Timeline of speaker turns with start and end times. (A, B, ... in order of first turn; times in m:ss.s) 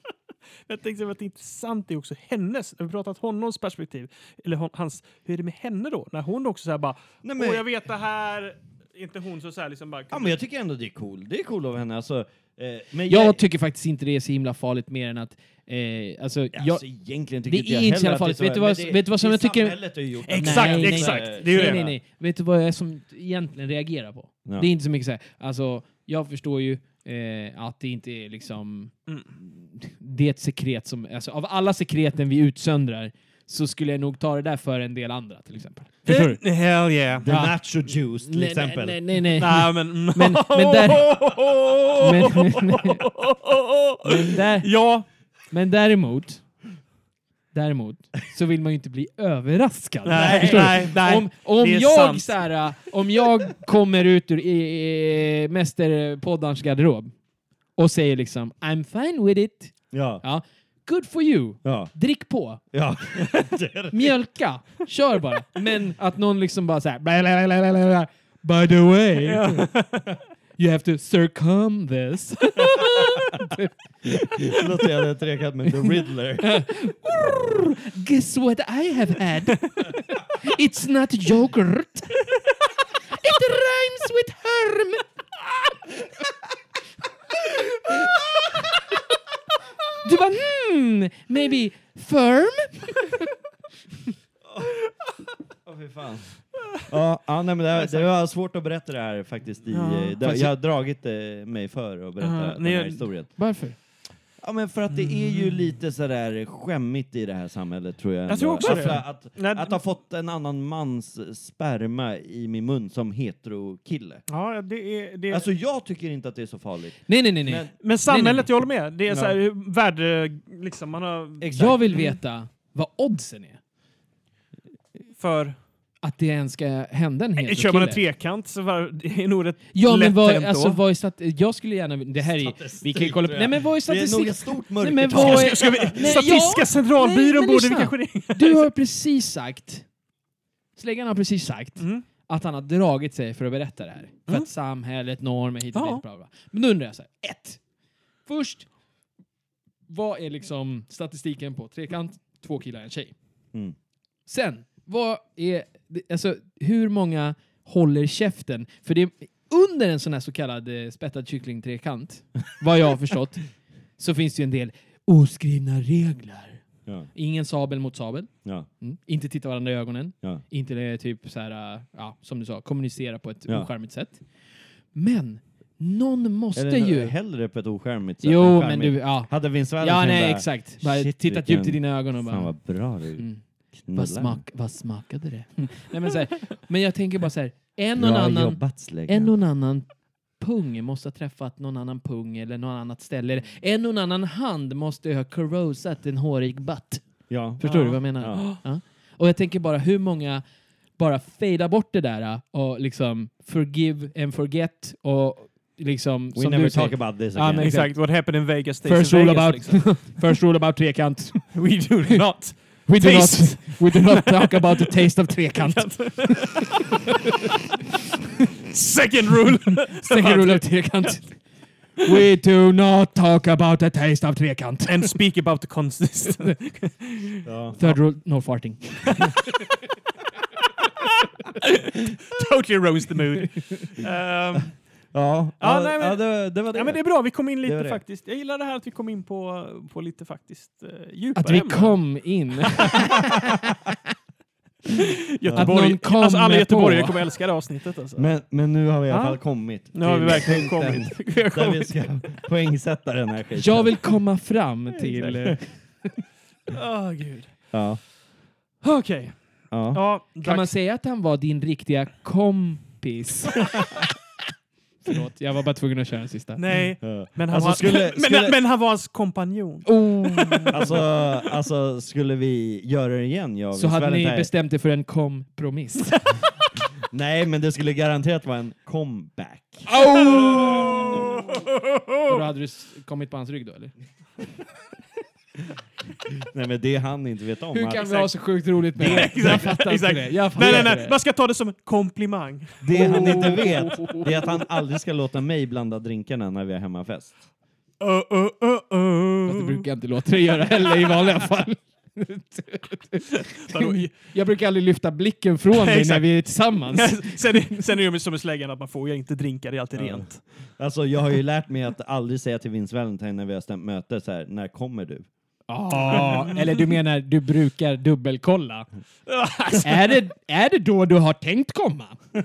0:00.7-0:10.3 A
0:07.2-0:07.6 B
0:10.1-0:13.4 B
0:13.1-0:16.8 C
0:16.5-0:22.0 B
0:17.4-0:36.4 C
0:20.3-0:21.8 A
0:36.1-0:37.3 A
0:37.2-0:39.1 B
0:37.2-0:41.1 C
0:39.4-0:45.0 A
0:42.0-0:43.0 C
0:44.0-0:44.9 C
0:45.5-0:46.4 C
0:47.5-0:57.2 C
0:50.0-0:52.4 A
0:50.1-0:50.9 B
0:57.8-1:02.6 C
0:59.9-1:00.2 B
1:01.6-1:01.9 B
1:02.7-1:04.1 B
1:03.9-1:09.7 C
1:09.2-1:10.1 A
1:10.6-1:14.6 C
1:14.4-1:16.6 B
1:16.4-1:22.3 C
1:23.1-1:25.1 C
1:30.0-1:33.2 C
1:34.4-1:34.8 B
1:35.6-1:43.4 B
1:37.7-1:38.1 A
1:39.7-1:40.5 A
1:42.2-1:43.1 A
1:43.4-1:43.8 C
1:44.4-1:54.2 B
1:44.9-1:45.7 A
1:48.3-1:49.8 A
1:48.6-1:49.0 C
1:54.3-1:55.4 A
1:55.3-1:57.7 B
1:57.1-1:58.4 C
1:57.8-2:02.1 A
1:59.1-1:59.4 B
2:01.4-2:01.8 B
2:01.5-2:03.6 C
2:05.2-2:05.6 A
2:06.0-2:08.0 C
2:07.4-2:10.8 A
2:09.7-2:19.9 C
2:12.2-2:16.2 B
2:15.1-2:18.6 A
2:20.8-2:27.6 C
2:21.8-2:22.0 A
2:25.7-2:26.0 A
2:28.2-2:28.7 C
2:29.9-2:33.1 C
2:34.2-2:43.5 C
2:44.0-2:57.1 C
2:56.5-3:03.3 B
2:58.2-3:02.6 C
3:03.1-3:20.4 C
3:03.8-3:04.4 B
3:08.0-3:09.3 B
3:17.3-3:18.4 B
3:17.6-3:18.6 A
3:21.0-3:28.3 C
3:26.3-3:27.7 B
3:27.6-3:30.3 A
3:28.8-3:31.7 C
3:31.5-3:36.8 A
3:32.9-3:36.6 C
3:38.6-3:41.1 A
3:40.0-3:41.5 C
3:42.0-3:45.2 C
3:44.9-3:48.0 A
3:47.4-3:47.8 B
3:47.8-3:49.3 C
3:51.6-3:54.8 A
3:55.1-3:58.0 B
3:55.6-4:02.1 A
4:01.4-4:03.5 C
4:02.6-4:03.0 A
4:05.0-4:08.3 A
4:05.4-4:05.7 B
4:05.6-4:07.2 C
4:08.2-4:14.0 B
4:09.1-4:09.4 C
4:09.9-4:12.0 A
4:13.6-4:15.8 C
4:15.3-4:15.5 B
4:16.7-4:17.7 A
4:17.7-4:18.0 B
4:18.8-4:20.7 A
4:19.7-4:20.0 B
4:20.4-4:23.8 C
4:25.0-4:26.6 C
4:26.6-4:31.0 A
4:27.0-4:28.6 B
4:29.8-4:30.8 C
4:30.7-4:34.5 B
4:33.7-4:36.2 C
4:37.0-4:39.9 B
4:39.9-4:41.2 C
4:39.9-4:42.4 A
4:40.5-4:41.2 B
4:42.2-4:43.9 C
4:46.3-4:48.2 B
4:47.7-4:51.2 C
4:48.0-4:48.3 A
4:48.9-4:53.7 A
4:49.0-4:49.7 B
4:50.6-4:51.0 B
4:52.8-4:57.3 B
4:52.9-4:54.2 C
4:58.0-4:59.8 A
4:59.4-5:07.8 C
5:03.5-5:04.1 A
5:05.7-5:10.4 A
5:10.0-5:15.3 B
5:15.7-5:18.9 C
5:16.0-5:16.9 A
5:19.3-5:20.1 A
5:19.8-5:22.2 C